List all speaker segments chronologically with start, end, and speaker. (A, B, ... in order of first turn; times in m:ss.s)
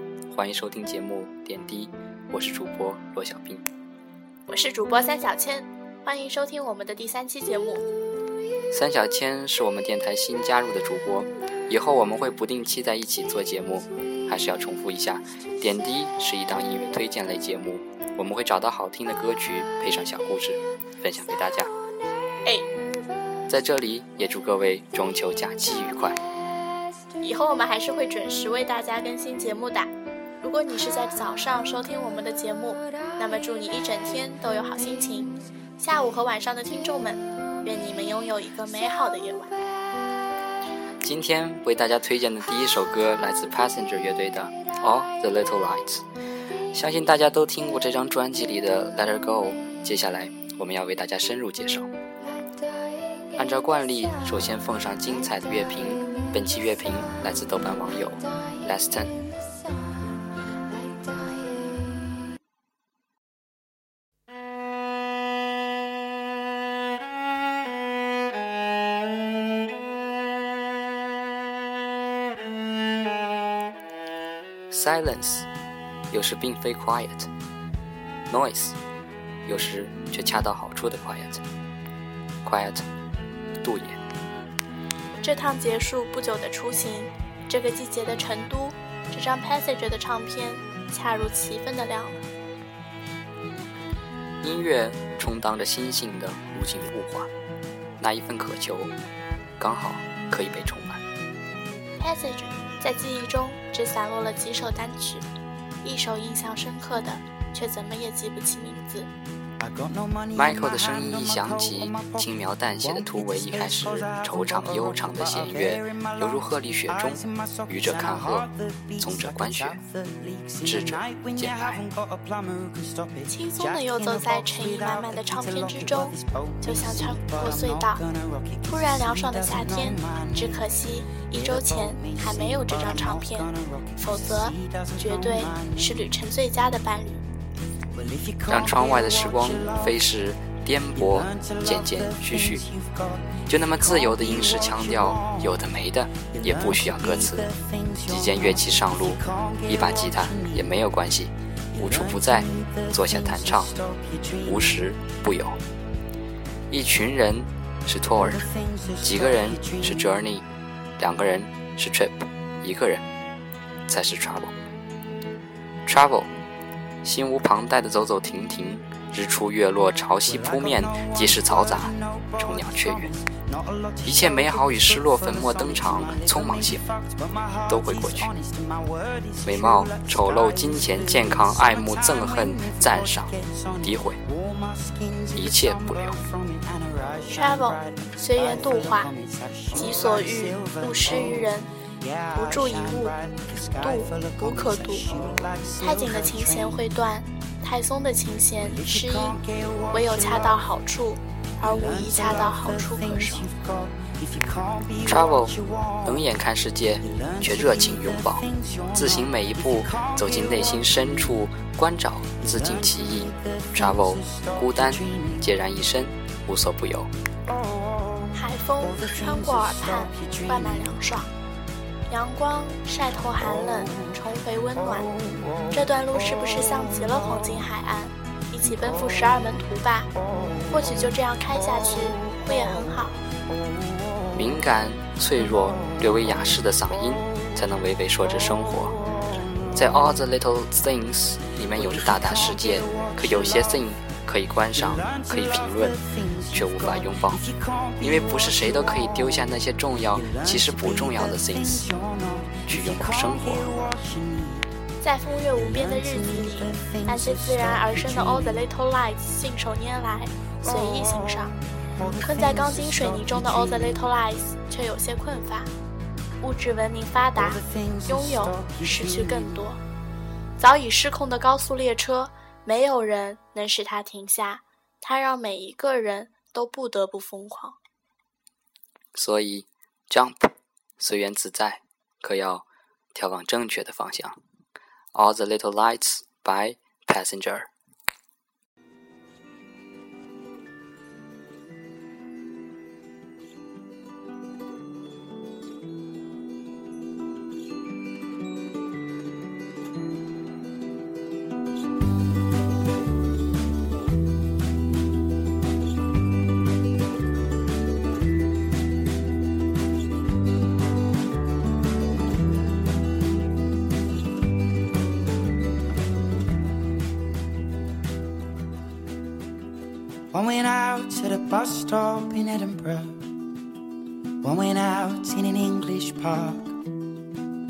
0:00.3-0:03.7 A
0:04.5-0:07.8 B
0:08.7-0:21.7 A
0:23.5-0:26.2 A
0:27.2-0:39.5 B
0:41.0-0:46.0 A
0:46.7-0:51.9 A
0:53.4-0:59.2 A
1:14.7-1:15.5 A
1:16.1-1:17.3 A
1:18.3-1:18.8 A
1:19.5-1:21.4 A
1:22.4-1:22.8 A
1:23.6-1:24.0 A
1:25.2-1:32.3 B
1:34.4-1:37.3 A
1:38.0-1:38.9 A
1:39.6-1:41.0 A
1:42.0-1:45.3 B
1:45.8-1:49.1 B
1:49.6-2:10.6 C
1:50.4-1:58.5 A
1:59.0-1:59.8 A
2:00.6-2:01.8 A
2:03.3-2:08.0 B
2:08.7-2:13.5 B
2:11.2-2:16.0 C
2:14.0-2:17.2 B
2:17.9-2:20.0 C
2:18.5-2:22.6 A
2:21.0-2:25.6 C
2:23.5-2:27.5 A
2:26.1-2:30.7 C
2:28.1-2:33.7 A
2:31.8-2:34.8 C
2:34.4-2:35.6 A
2:36.7-2:38.4 A
2:38.2-2:40.1 C
2:39.0-2:40.4 A
2:41.0-2:43.0 A
2:43.9-2:44.5 A
2:45.9-2:46.3 A
2:47.0-2:53.1 A
2:50.2-3:16.8 C
2:54.0-2:56.8 A
2:57.7-2:58.3 A
2:59.4-3:04.2 A
3:05.4-3:06.2 A
3:07.3-3:09.1 B
3:09.7-3:11.7 B
3:12.4-3:13.1 B
3:13.8-3:15.0 B
3:15.8-3:23.5 B
3:18.6-3:20.7 C
3:21.6-3:26.3 C
3:25.1-3:37.1 A
3:27.0-3:31.4 C
3:32.4-3:35.5 C
3:37.5-3:41.0 C
3:38.3-3:41.3 B
3:42.1-3:45.2 B
3:43.4-3:44.1 C
3:45.0-3:47.6 C
3:45.7-3:50.1 B
3:48.7-3:49.3 C
3:50.4-3:50.8 C
3:50.7-3:53.2 B
3:51.8-3:52.4 C
3:54.3-3:59.0 A
3:58.4-3:59.8 C
3:59.7-4:06.0 A
4:01.7-4:03.9 C
4:04.8-4:09.4 C
4:06.5-4:07.4 A
4:08.0-4:11.9 A
4:10.1-4:14.7 C
4:12.7-4:13.7 A
4:15.0-4:25.7 B
4:15.5-4:18.6 C
4:20.6-4:24.0 C
4:26.4-4:29.8 B
4:27.4-4:29.7 C
4:30.6-4:37.8 B
4:39.2-4:44.4 A
4:45.2-4:47.7 A
5:20.3-5:23.3 C
5:24.4-5:26.8 C